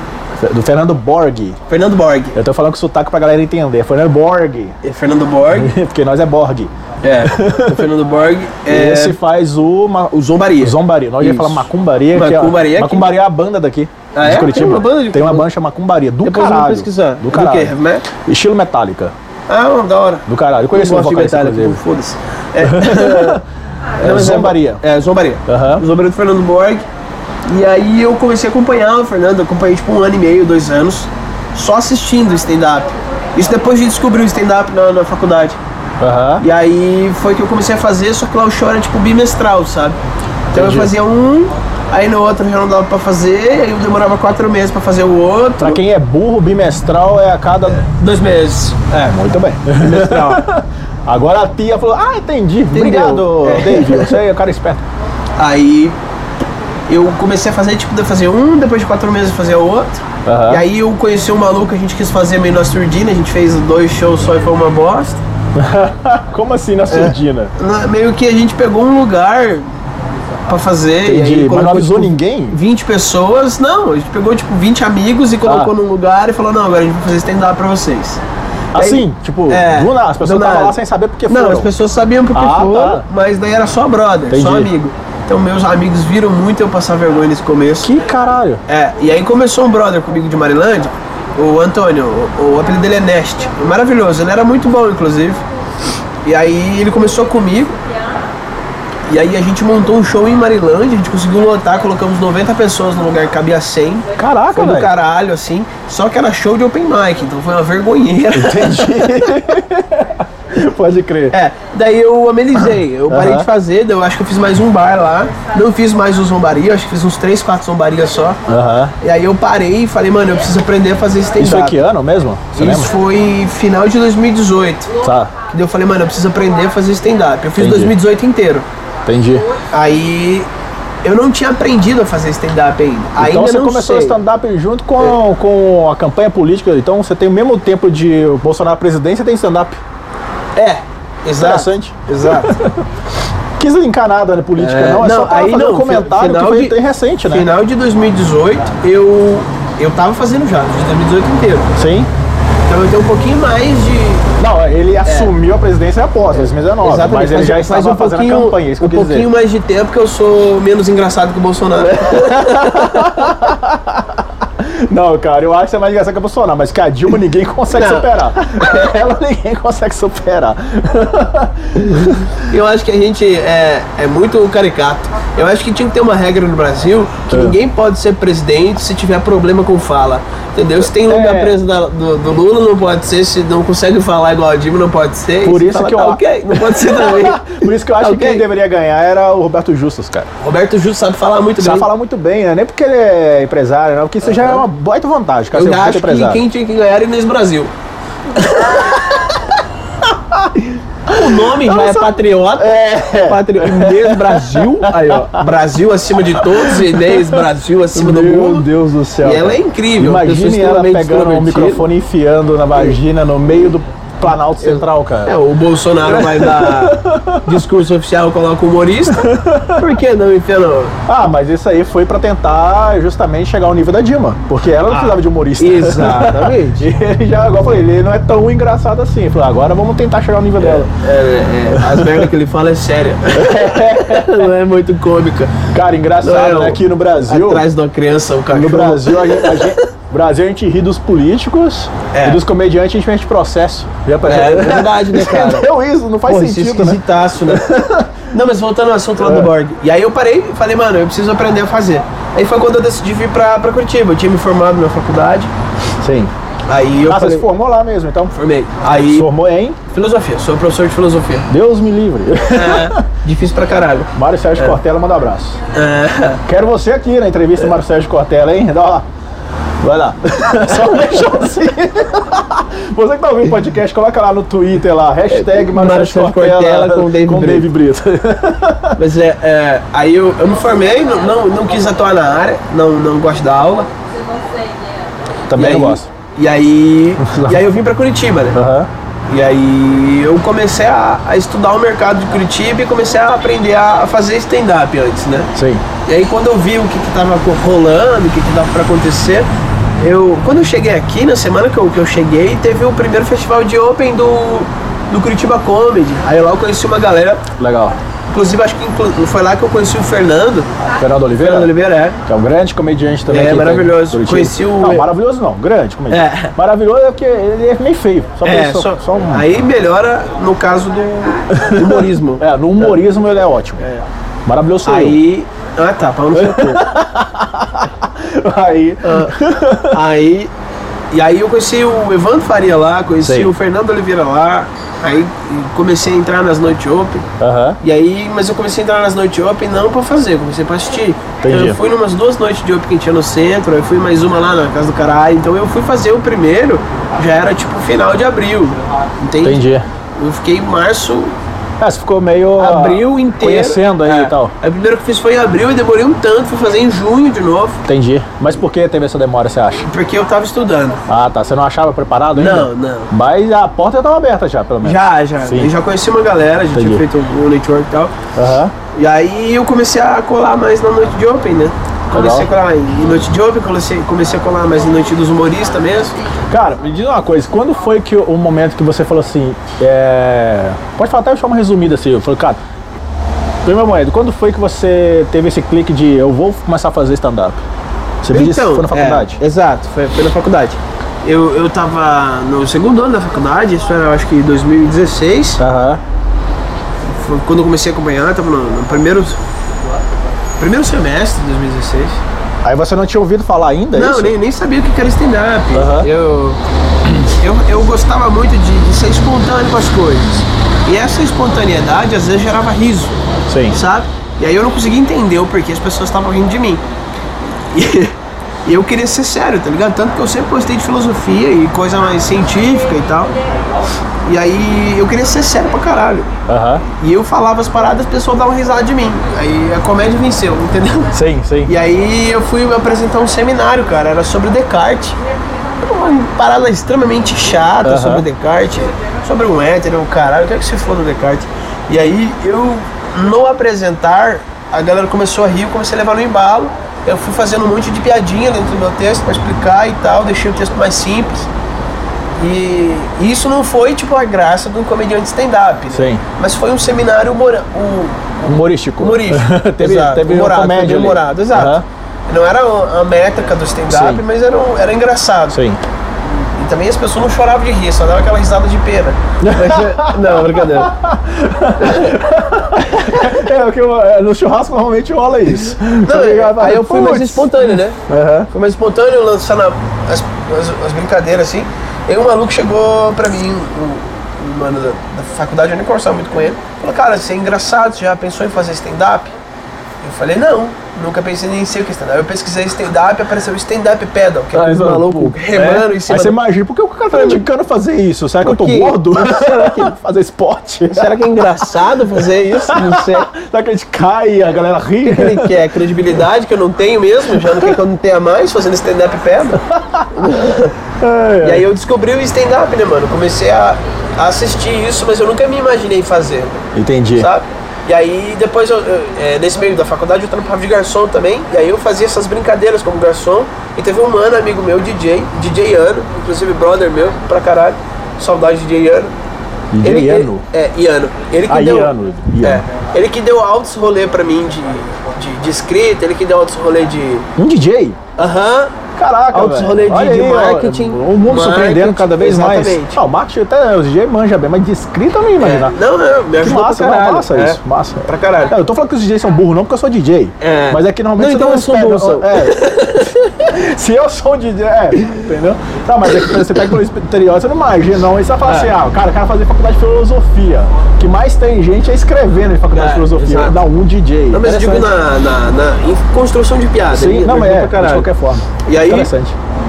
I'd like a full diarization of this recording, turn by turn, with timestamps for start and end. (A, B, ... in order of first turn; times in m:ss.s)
0:00.4-0:01.6 A
0:01.7-0:02.4 B
0:02.3-0:04.8 A
0:04.8-0:05.7 B
0:05.5-0:07.9 A
0:07.0-0:09.2 B
0:08.7-0:19.1 A
0:10.1-0:13.1 B
0:14.1-0:15.5 B
0:16.2-0:18.0 B
0:19.5-0:23.4 B
0:20.2-0:21.8 A
0:22.6-0:23.4 A
0:24.0-0:26.8 B
0:24.0-0:24.8 A
0:25.5-0:25.8 A
0:27.4-0:35.6 B
0:36.0-0:36.4 A
0:36.4-0:40.0 B
0:40.5-0:45.8 B
0:40.5-0:40.9 A
0:45.6-0:47.9 A
0:47.7-0:48.9 B
0:48.9-0:54.8 A
0:49.8-0:50.4 B
0:52.7-0:54.2 B
0:55.4-0:56.0 B
0:56.9-1:05.2 B
1:00.2-1:00.6 A
1:05.6-1:07.5 A
1:06.9-1:09.6 B
1:10.5-1:18.2 B
1:11.0-1:12.6 A
1:15.4-1:15.7 A
1:18.7-1:21.7 A
1:18.8-1:27.9 B
1:22.3-1:23.0 A
1:24.3-1:24.7 A
1:27.8-1:28.6 A
1:28.7-1:35.4 B
1:36.2-1:37.8 B
1:39.1-1:49.3 B
1:44.2-1:44.9 A
1:48.3-1:51.4 A
1:51.3-1:58.4 B
1:53.1-1:53.5 A
1:58.5-1:58.9 A
1:59.0-2:01.8 B
2:01.4-2:02.9 A
2:02.5-2:05.0 B
2:05.0-2:05.3 A
2:05.5-2:08.7 B
2:07.6-2:08.0 A
2:09.0-2:09.5 A
2:09.7-2:10.5 B
2:11.0-2:14.2 B
2:13.2-2:19.8 A
2:20.6-2:22.6 B
2:21.4-2:22.8 A
2:23.6-2:27.5 A
2:24.6-2:31.7 B
2:31.8-2:32.1 A
2:32.7-2:34.3 B
2:34.4-2:39.3 A
2:35.0-2:35.3 B
2:36.4-2:43.5 B
2:42.1-2:52.4 A
2:47.7-2:48.9 B
2:52.0-3:08.4 B
2:57.3-2:57.6 A
3:00.8-3:01.6 A
3:05.4-3:10.3 A
3:10.4-3:11.9 B
3:11.6-3:16.4 A
3:14.2-3:14.6 B
3:15.5-3:17.7 B
3:18.3-3:19.0 B
3:18.5-3:19.3 A
3:20.3-3:25.4 A
3:21.1-3:28.7 B
3:26.4-3:35.4 A
3:29.2-3:31.9 B
3:34.6-3:40.9 B
3:36.0-3:37.5 A
3:39.1-3:39.9 A
3:41.0-3:50.9 A
3:44.9-3:46.9 B
3:50.6-3:55.6 B
3:51.7-3:52.3 A
3:53.3-3:54.5 A
3:55.7-3:57.6 A
3:56.2-3:59.8 B
3:58.5-4:08.1 A
4:02.1-4:02.4 B
4:04.2-4:05.7 B
4:06.2-4:07.8 B
4:08.3-4:15.5 B
4:09.2-4:09.5 A
4:16.0-4:16.3 A
4:16.7-4:17.5 B
4:17.0-4:18.4 A
4:18.3-4:19.3 B
4:18.9-4:19.8 A
4:19.9-4:21.5 B
4:21.5-4:23.0 A
4:22.5-4:24.8 B
4:24.1-4:25.6 A
4:25.7-4:26.4 B
4:26.4-4:29.0 A
4:29.8-4:39.0 A
4:30.5-4:31.3 B
4:35.3-4:37.7 B
4:39.0-4:43.9 B
4:45.5-4:46.1 A
4:45.6-4:48.6 B
4:47.2-4:47.6 A
4:48.5-4:48.9 A
4:49.3-4:55.5 B
4:55.5-4:55.8 A
4:56.0-4:59.5 B
5:00.0-5:07.4 B
5:07.6-5:08.0 A
5:08.3-5:10.7 B
5:11.0-5:11.7 A
5:11.4-5:12.2 B
5:12.2-5:19.5 A
5:13.3-5:15.1 B
5:16.1-5:16.5 B
5:18.4-5:23.0 B
5:21.5-5:23.8 A
5:23.8-5:24.0 B
5:24.4-5:25.2 A
5:24.8-5:26.9 B
5:26.3-5:30.0 A
5:29.0-5:30.5 B
5:31.1-5:37.3 B
5:33.2-5:33.5 A
5:37.4-5:37.8 A
5:37.8-5:49.6 B
5:41.4-5:41.8 A
5:49.4-5:49.8 A
5:50.2-5:51.3 B
5:51.8-5:54.5 A
5:52.6-5:57.8 B
5:57.8-5:59.9 A
5:59.9-6:01.0 B
6:01.1-6:05.7 A
6:02.3-6:03.1 B
6:04.8-6:08.1 B
6:06.7-6:07.0 A
6:08.3-6:08.7 A
6:08.9-6:16.2 B
6:12.1-6:12.5 A
6:16.5-6:22.6 A
6:23.6-6:27.6 A
6:28.2-6:29.4 A
6:28.3-6:35.6 B
6:35.6-6:36.0 A
6:37.0-6:39.4 B
6:40.6-6:42.2 B
6:42.6-6:44.3 A
6:43.9-6:46.6 B
6:45.7-6:46.1 A
6:47.2-6:56.8 B
6:53.5-6:53.8 A
6:57.5-6:58.1 B
6:58.6-7:03.3 B
7:04.2-7:06.3 B
7:06.5-7:06.8 A
7:06.9-7:15.2 B
7:11.1-7:11.7 A
7:15.8-7:31.5 B
7:17.8-7:18.2 A
7:32.4-7:45.6 B
7:35.9-7:36.2 A
7:38.4-7:41.8 A
7:43.9-7:44.2 A
7:45.5-7:45.8 A
7:46.2-7:50.9 B
7:49.4-7:58.5 A
7:51.8-7:52.2 B
7:52.8-7:53.3 B
7:56.0-7:58.0 B
7:58.5-8:09.3 B
8:10.0-8:16.4 B
8:14.5-8:25.9 A
8:17.1-8:17.4 B
8:18.4-8:20.0 B
8:20.9-8:23.3 B
8:25.0-8:29.6 B
8:27.4-8:27.7 A
8:29.7-8:30.3 A
8:30.1-8:30.8 B
8:31.0-8:31.7 A
8:31.4-8:36.6 B
8:36.7-8:37.3 A
8:37.2-8:49.1 B
8:49.7-8:50.4 A
8:49.8-8:57.3 B
8:51.5-8:52.6 A
8:57.4-8:58.0 A
8:58.2-8:58.7 B
8:59.0-9:05.8 A
8:59.3-9:03.0 B
9:05.4-9:08.5 B
9:06.4-9:24.9 A
9:10.4-9:13.1 B
9:22.7-9:23.6 B
9:24.3-9:28.1 B
9:26.9-9:29.4 A
9:28.6-9:29.1 B